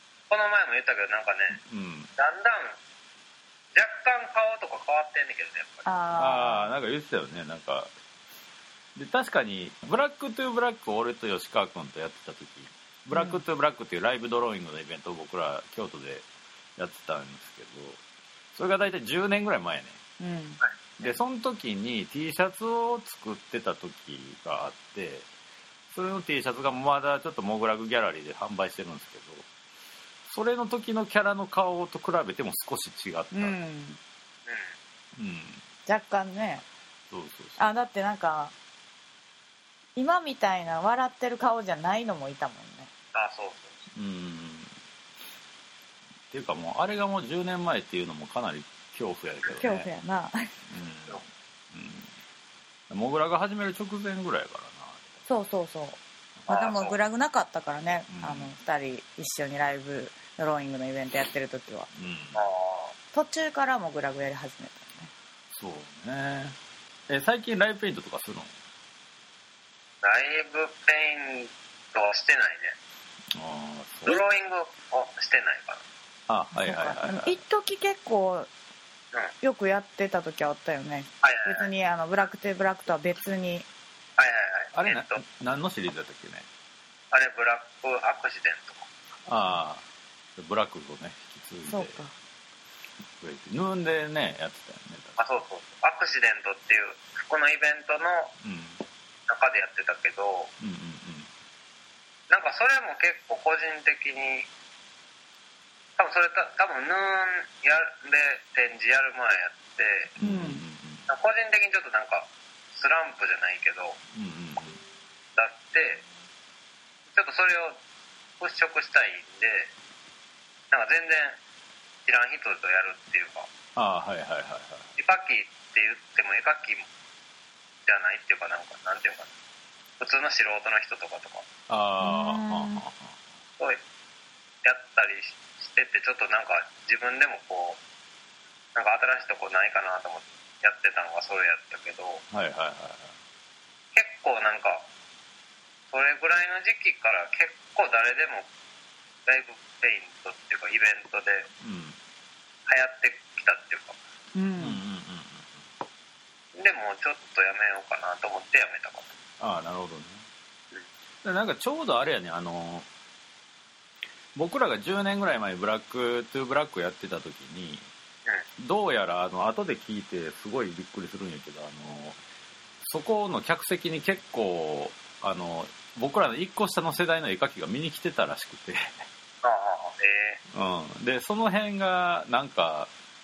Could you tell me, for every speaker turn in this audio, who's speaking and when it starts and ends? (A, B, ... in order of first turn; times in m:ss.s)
0:00.3-0:01.6 A
0:01.5-0:02.1 B
0:02.2-0:02.8 A
0:03.7-0:05.9 A
0:05.8-0:06.7 C
0:06.1-0:07.9 B
0:08.9-0:18.0 B
0:13.1-0:13.4 C
0:18.5-0:20.0 B
0:20.2-0:20.6 C
0:21.0-0:25.3 B
0:25.9-0:29.5 B
0:30.3-0:33.6 B
0:33.3-0:34.0 C
0:34.4-0:34.7 A
0:35.2-0:35.6 B
0:35.8-0:36.6 C
0:37.1-0:37.7 B
0:37.6-0:38.5 C
0:40.0-0:42.9 C
0:43.1-0:43.8 A
0:43.9-0:44.7 B
0:46.3-0:49.9 B
0:49.5-0:50.5 C
0:50.7-0:52.1 B
0:52.9-0:55.0 B
0:55.3-1:01.9 C
0:56.5-0:57.0 A
0:58.1-0:58.5 B
1:01.9-1:02.4 B
1:02.3-1:02.9 A
1:03.1-1:05.1 C
1:05.5-1:06.6 B
1:07.1-1:08.5 B
1:10.0-1:12.8 A
1:13.3-1:14.2 B
1:14.0-1:15.8 A
1:16.3-1:17.4 B
1:16.5-1:18.5 C
1:19.4-1:23.7 C
1:21.2-1:21.7 A
1:24.2-1:25.2 A
1:24.7-1:26.4 B
1:27.1-1:28.9 A
1:29.2-1:29.8 B
1:30.4-1:32.0 B
1:31.7-1:32.1 C
1:33.2-1:35.2 B
1:35.2-1:38.3 A
1:38.4-1:38.8 B
1:39.3-1:40.5 A
1:40.6-1:41.3 B
1:42.3-1:44.5 A
1:46.0-1:50.1 A
1:50.2-1:51.0 B
1:50.2-1:50.6 C
1:51.1-1:54.0 A
1:54.1-1:54.8 B
1:55.4-1:56.0 A
1:57.1-1:57.8 A
1:58.4-1:59.7 A
2:00.7-2:01.4 A
2:02.0-2:03.5 A
2:03.7-2:04.9 B
2:05.0-2:06.9 A
2:07.8-2:09.3 A
2:10.0-2:11.4 A
2:11.7-2:13.2 B
2:12.0-2:12.8 C
2:14.6-2:17.8 A
2:18.7-2:22.2 A
2:22.3-2:23.1 B
2:23.9-2:24.8 A
2:25.9-2:28.5 A
2:29.2-2:31.5 A
2:31.6-2:32.0 B
2:32.7-2:34.0 A
2:34.3-2:34.8 C
2:34.6-2:35.6 B
2:36.5-2:39.1 A
2:39.4-2:40.2 B
2:41.2-2:42.9 B
2:44.3-2:47.9 B
2:48.6-2:52.2 B
2:52.8-2:59.0 B
2:59.4-3:00.4 A
3:00.5-3:02.9 B